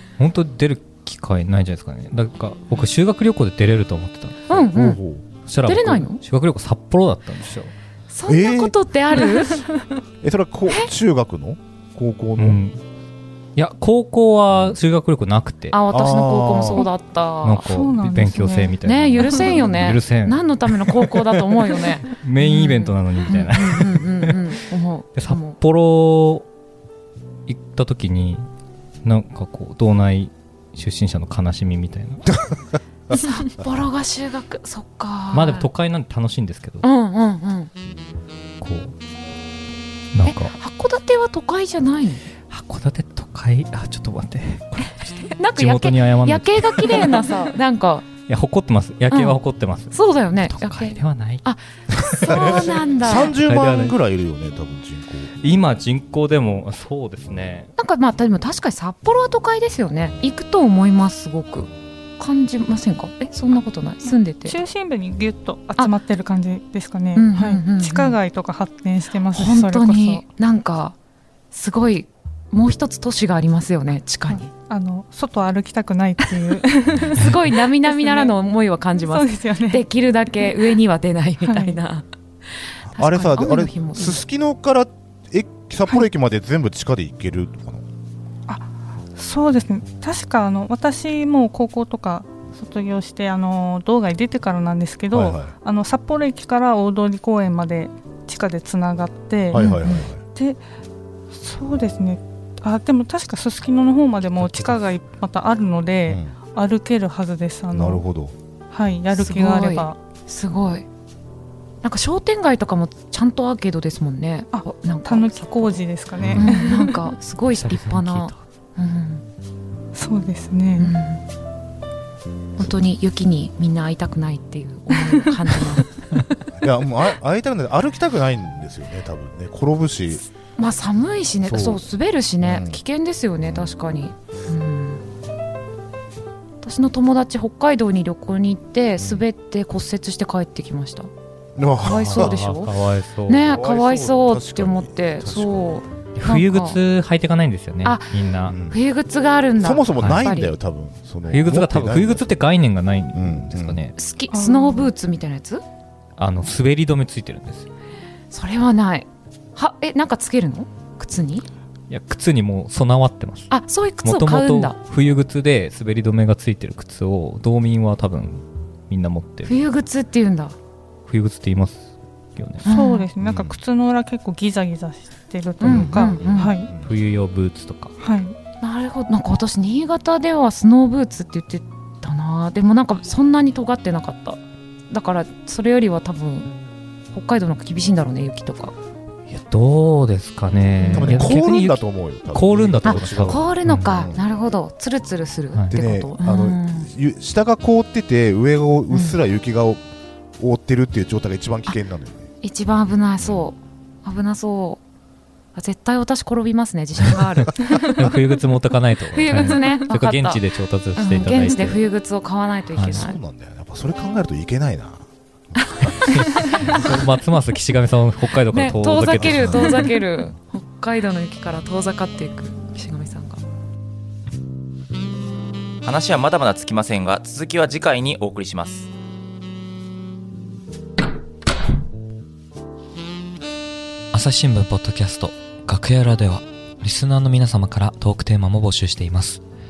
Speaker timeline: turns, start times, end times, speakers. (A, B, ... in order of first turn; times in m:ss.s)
0:00.2-0:04.6 A
0:04.5-0:05.0 B
0:04.6-0:05.3 C
0:05.5-0:07.7 A
0:05.7-0:06.2 B
0:08.1-0:09.9 B
0:08.3-0:08.8 C
0:10.2-0:12.6 C
0:12.4-0:12.8 A
0:13.6-0:15.8 A
0:15.7-0:17.7 B
0:15.9-0:16.9 C
0:17.4-0:24.6 A
0:17.6-0:19.6 D
0:18.8-0:25.6 B
0:25.2-0:26.5 A
0:27.5-0:28.4 A
0:29.0-0:32.3 A
0:33.1-0:35.7 B
0:35.3-0:36.8 A
0:36.8-0:37.7 B
0:38.6-0:38.9 A
0:40.1-0:40.5 A
0:40.3-0:42.2 B
0:42.5-0:47.5 A
0:45.3-0:48.1 B
0:48.3-0:54.0 A
0:49.1-0:49.4 B
0:49.9-0:51.6 B
0:52.1-0:55.3 C
0:52.2-0:53.4 B
0:55.4-0:57.7 A
0:57.8-1:04.6 B
1:04.4-1:10.2 D
1:07.2-1:08.2 B
1:09.3-1:11.0 B
1:11.5-1:14.5 B
1:14.3-1:18.4 D
1:17.0-1:22.0 B
1:19.1-1:19.8 D
1:21.4-1:21.8 D
1:22.9-1:27.8 C
1:22.9-1:24.2 B
1:28.5-1:39.6 D
1:35.1-1:35.5 C
1:39.5-1:40.2 C
1:39.5-1:40.1 B
1:40.4-1:40.6 D
1:41.3-1:48.0 D
1:46.1-1:46.3 C
1:47.7-1:48.3 C
1:48.7-1:50.0 D
1:49.1-1:50.9 B
1:51.8-1:55.8 B
1:54.5-1:57.0 D
1:56.2-1:56.4 C
1:56.4-1:59.2 B
1:57.5-1:58.4 A
1:59.9-2:01.0 D
2:00.8-2:01.2 B
2:02.6-2:05.9 B
2:05.0-2:05.6 D
2:06.6-2:10.3 C
2:10.6-2:15.0 B
2:11.4-2:11.8 C
2:12.4-2:12.8 C
2:13.4-2:13.7 C
2:16.6-2:21.1 B
2:21.6-2:22.4 C
2:21.8-2:22.7 B
2:22.0-2:23.5 A
2:23.3-2:26.8 B
2:23.5-2:25.8 C
2:26.2-2:28.6 A
2:27.8-2:28.1 B
2:28.5-2:28.8 C
2:28.6-2:30.6 B
2:29.6-2:32.4 C
2:31.3-2:34.0 A
2:33.1-2:33.8 C
2:34.0-2:35.6 B
2:34.3-2:34.9 D
2:36.2-2:37.7 A
2:38.3-2:41.5 B
2:41.9-2:43.5 A
2:43.5-2:44.8 B
2:44.0-2:49.6 A
2:49.4-2:50.6 B
2:51.1-2:52.6 A
2:52.6-2:53.1 B
2:52.7-2:56.7 D
2:53.2-2:53.6 C
2:55.6-2:56.6 B
2:55.6-2:56.9 C
2:56.8-2:58.0 A
2:58.0-2:58.4 D
2:58.6-3:06.5 B
3:07.1-3:08.7 B
3:09.3-3:14.0 A
3:10.8-3:11.3 B
3:10.9-3:14.2 C
3:12.8-3:16.9 B
3:15.7-3:19.8 C
3:18.9-3:19.2 B
3:20.4-3:22.3 C
3:22.4-3:24.8 B
3:23.2-3:23.5 C
3:25.6-3:28.1 B
3:27.7-3:31.8 A
3:29.1-3:30.4 B
3:31.0-3:33.2 B
3:32.8-3:33.0 A
3:32.9-3:37.0 C
3:35.8-3:36.8 B
3:36.1-3:39.8 A
3:38.5-3:43.4 B
3:39.1-3:39.7 C
3:45.8-3:48.9 E
3:54.1-3:59.4 A